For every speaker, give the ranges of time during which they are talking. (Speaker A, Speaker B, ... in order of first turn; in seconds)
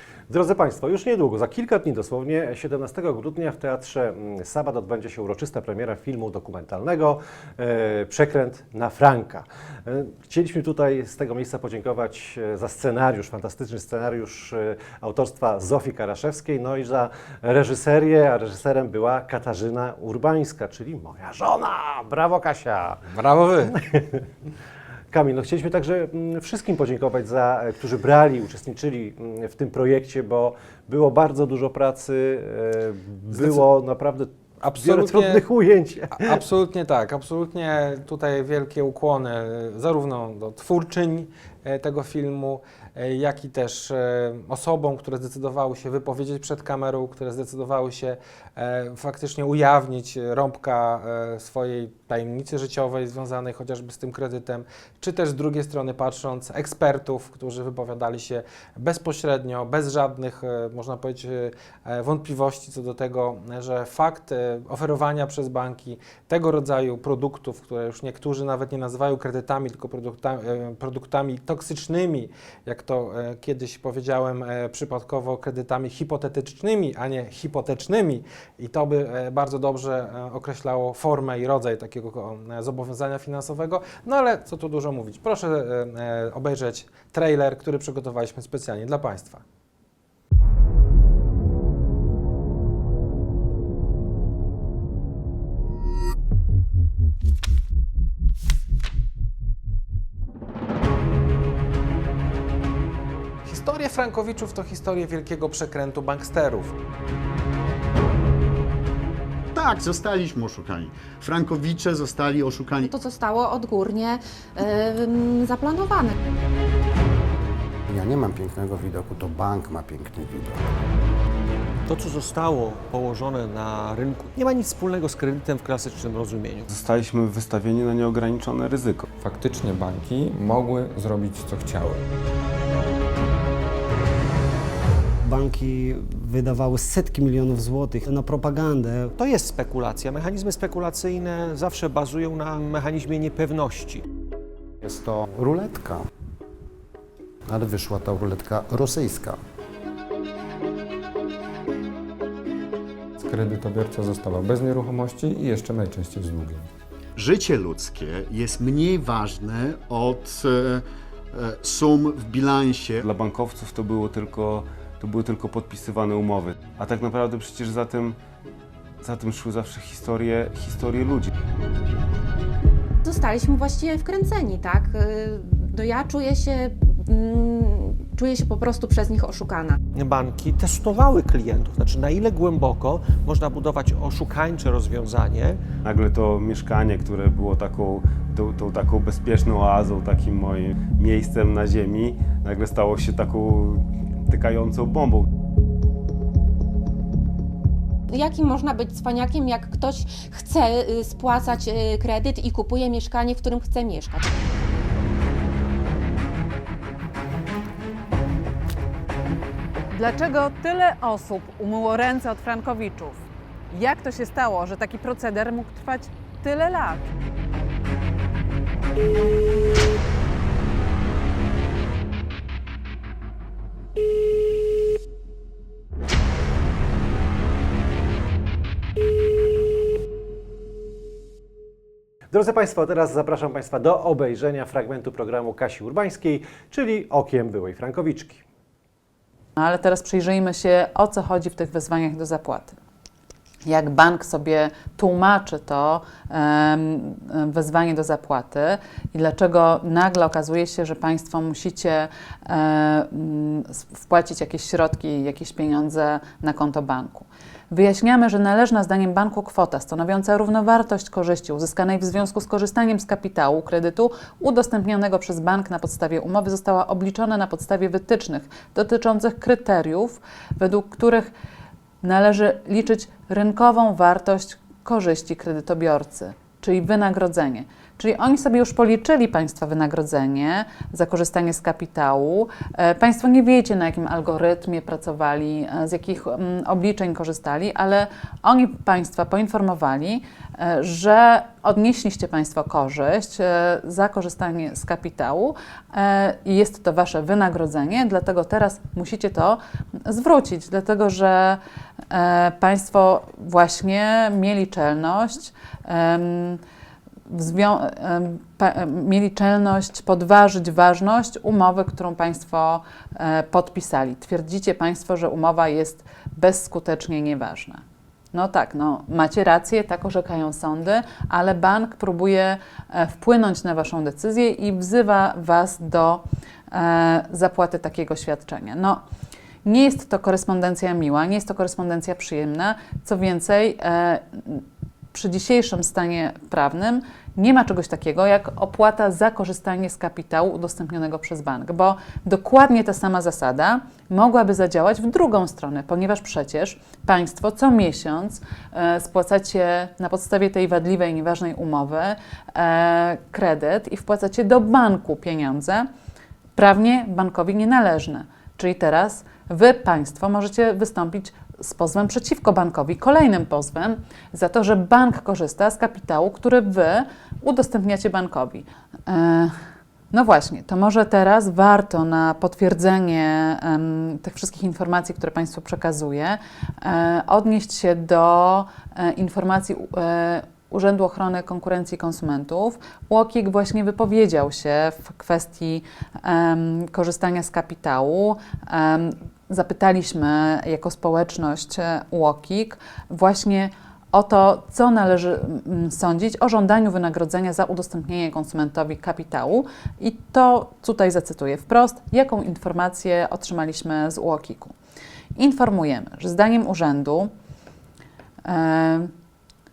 Speaker A: 0.3-23.0, 23.6-24.2, 25.1-36.4, 232.3-238.4
Speaker B: 23.1-23.8, 33.3-33.6, 34.6-35.4, 36.1-89.4, 103.4-106.7
Speaker C: 109.5-112.9, 157.2-163.1
Speaker D: 112.8-116.2, 173.0-179.8, 198.1-204.3
Speaker E: 117.9-120.7, 144.8-146.1, 147.5-149.4
Speaker F: 121.8-126.7, 139.2-144.0, 179.9-185.6
Speaker G: 126.7-129.1, 163.0-168.2, 169.0-171.3, 185.8-195.3
Speaker H: 129.2-132.0, 153.2-156.7
Speaker I: 135.2-139.1
Speaker J: 209.9-213.2, 213.7-217.1, 239.6-242.8, 243.6-271.3, 272.0-306.6, 307.3-329.0, 329.6-355.9, 356.6-369.6, 370.1-404.7, 405.4-407.3, 408.4-409.1